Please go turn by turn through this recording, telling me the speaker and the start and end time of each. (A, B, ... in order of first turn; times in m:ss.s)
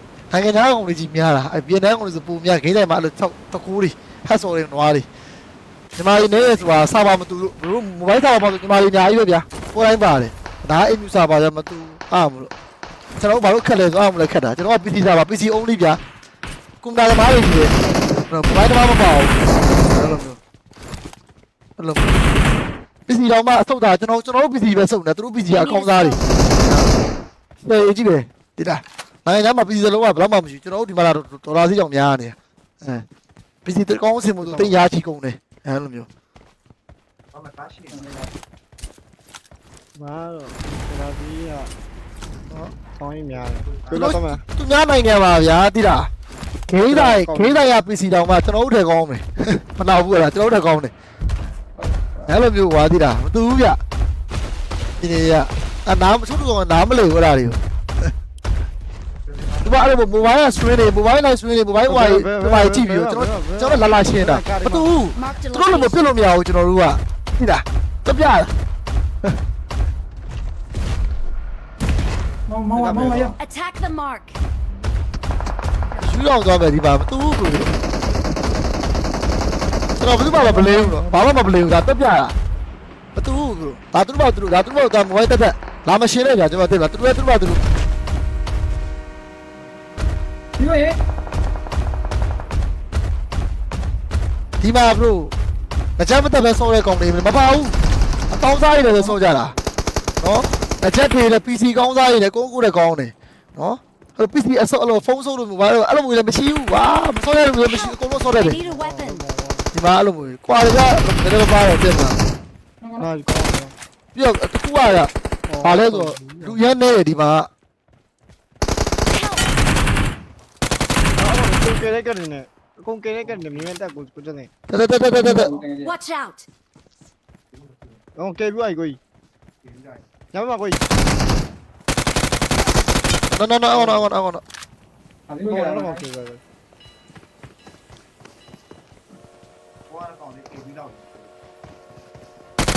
0:00.3-0:05.1 A
0:05.9-0:12.5 A
0:13.2-0:16.0 A
0:16.8-0:17.8 A
0:18.3-0:20.4 A
0:21.8-0:22.2 A
0:23.1-0:26.9 A
0:25.5-0:26.3 B
0:27.6-0:33.0 A
0:33.6-0:36.1 A
0:34.4-0:34.8 C
0:37.3-0:38.0 D
0:37.9-0:38.3 E
0:40.0-0:41.7 C
0:43.0-0:44.4 C
0:43.9-0:46.1 A
0:46.7-0:50.9 A
0:46.9-0:47.7 C
0:51.8-0:52.3 E
0:52.3-0:53.8 A
0:55.0-0:57.6 A
0:59.6-1:08.5 A
1:01.9-1:04.9 C
1:05.1-1:06.1 B
1:12.5-1:13.3 E
1:12.7-1:13.4 C
1:13.4-1:14.4 B
1:16.0-1:17.7 A
1:20.0-1:22.3 A
1:20.2-1:21.2 E
1:23.1-1:27.6 A
1:30.6-1:31.0 E
1:34.6-1:35.3 A
1:36.0-1:37.8 A
1:38.3-1:39.5 A
1:40.2-1:48.6 A
1:47.6-1:49.2 B
1:48.2-1:49.7 C
1:49.7-1:52.2 A
1:52.8-1:53.1 E
1:53.0-1:53.7 C
1:54.1-1:57.5 A
1:55.5-1:56.6 C
1:59.1-1:59.5 B
2:01.2-2:04.5 C
2:04.7-2:05.6 A
2:05.1-2:05.9 E
2:05.8-2:06.5 B
2:08.2-2:09.0 C
2:10.3-2:10.8 C
2:13.3-2:14.4 A
2:13.7-2:14.1 C
2:15.3-2:16.0 E
2:15.4-2:16.4 C
2:19.9-2:21.2 D